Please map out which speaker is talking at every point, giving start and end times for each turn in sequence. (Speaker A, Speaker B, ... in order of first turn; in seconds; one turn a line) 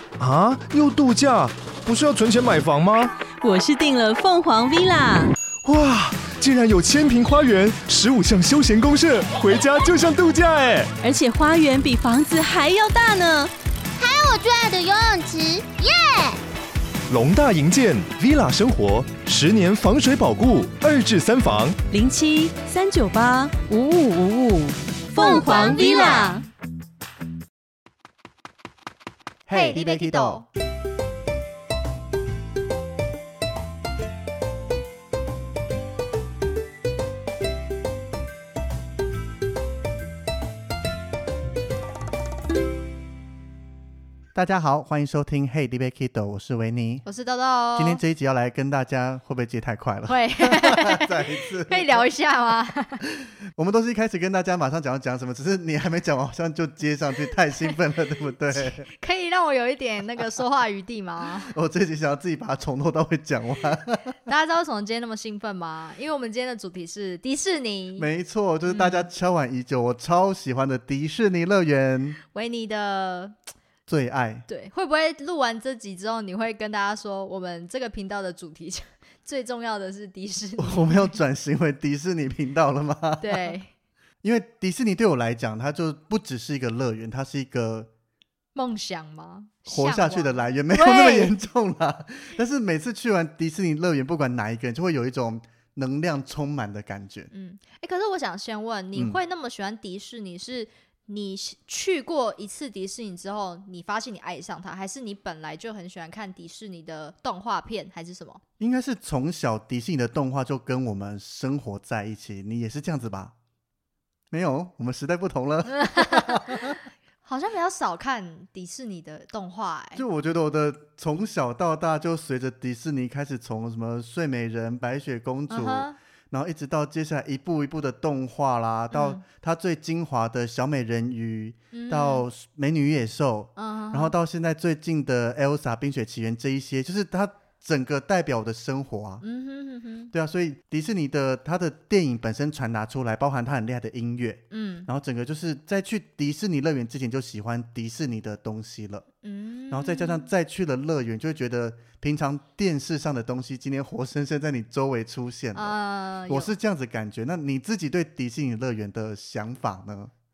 Speaker A: 0.2-3.1
Speaker B: 3.4-5.3
Speaker A: 5.6-10.9
Speaker B: 11.0-13.5
Speaker C: 14.0-16.4
Speaker A: 17.1-21.8
Speaker B: 21.9-26.4
Speaker C: 25.2-26.4
Speaker D: 25.4-26.3
Speaker E: 29.5-30.4
Speaker D: 29.5-30.5
Speaker E: 44.3-47.0
Speaker D: 47.0-48.0
Speaker E: 47.8-52.1
Speaker D: 50.1-53.0
Speaker E: 53.6-58.9
Speaker D: 58.5-61.5
Speaker E: 61.5-64.2
Speaker D: 64.3-68.1
Speaker E: 68.0-72.2
Speaker D: 68.7-69.1
Speaker D: 72.3-73.4
Speaker E: 73.9-74.5
Speaker D: 74.5-81.2
Speaker E: 80.6-83.6
Speaker D: 83.2-83.7
Speaker E: 84.2-87.9
Speaker D: 88.5-91.3
Speaker E: 89.7-97.3
Speaker D: 97.3-108.4
Speaker E: 108.6-113.3
Speaker E: 114.3-116.8
Speaker D: 115.8-120.0
Speaker E: 120.0-139.2
Speaker D: 125.5-126.0
Speaker D: 128.9-129.2
Speaker D: 131.7-132.3
Speaker D: 133.6-134.2
Speaker D: 139.2-140.1
Speaker E: 140.1-149.1
Speaker D: 144.5-144.9
Speaker D: 149.2-150.3
Speaker E: 149.7-155.8
Speaker D: 155.5-156.5
Speaker E: 156.3-160.1